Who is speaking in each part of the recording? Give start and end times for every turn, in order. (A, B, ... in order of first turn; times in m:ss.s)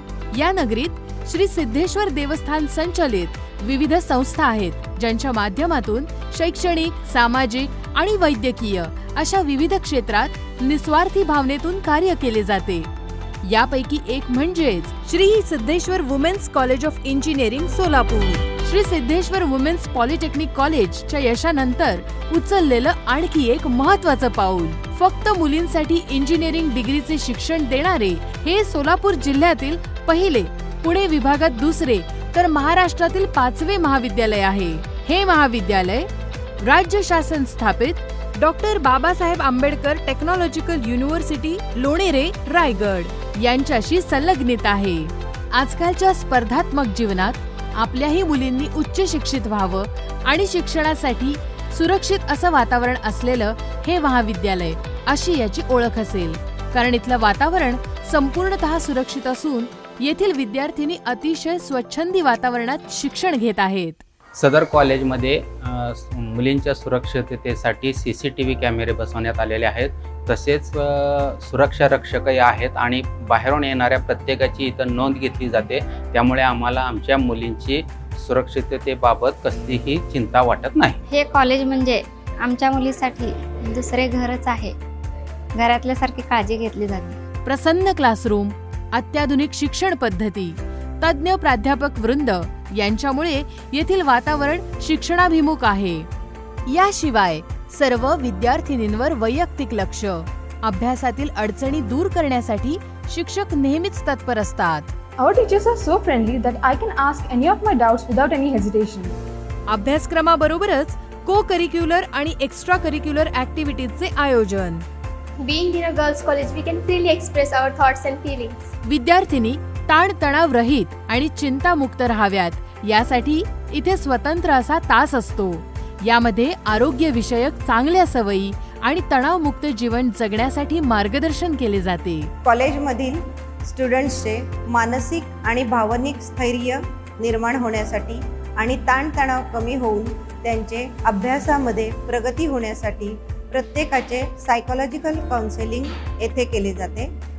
0:00.3-0:12.9 A
0:13.4-0:36.1 A
0:36.6-1:04.0 A
1:04.4-1:21.0 B
1:21.1-1:24.8 C
1:25.6-1:27.2 C
1:27.4-1:36.1 A
1:36.7-1:44.9 A
1:45.2-1:49.2 D
1:49.7-1:54.8 A
1:55.4-1:58.7 E
1:58.9-2:12.3 A
2:12.4-2:27.1 F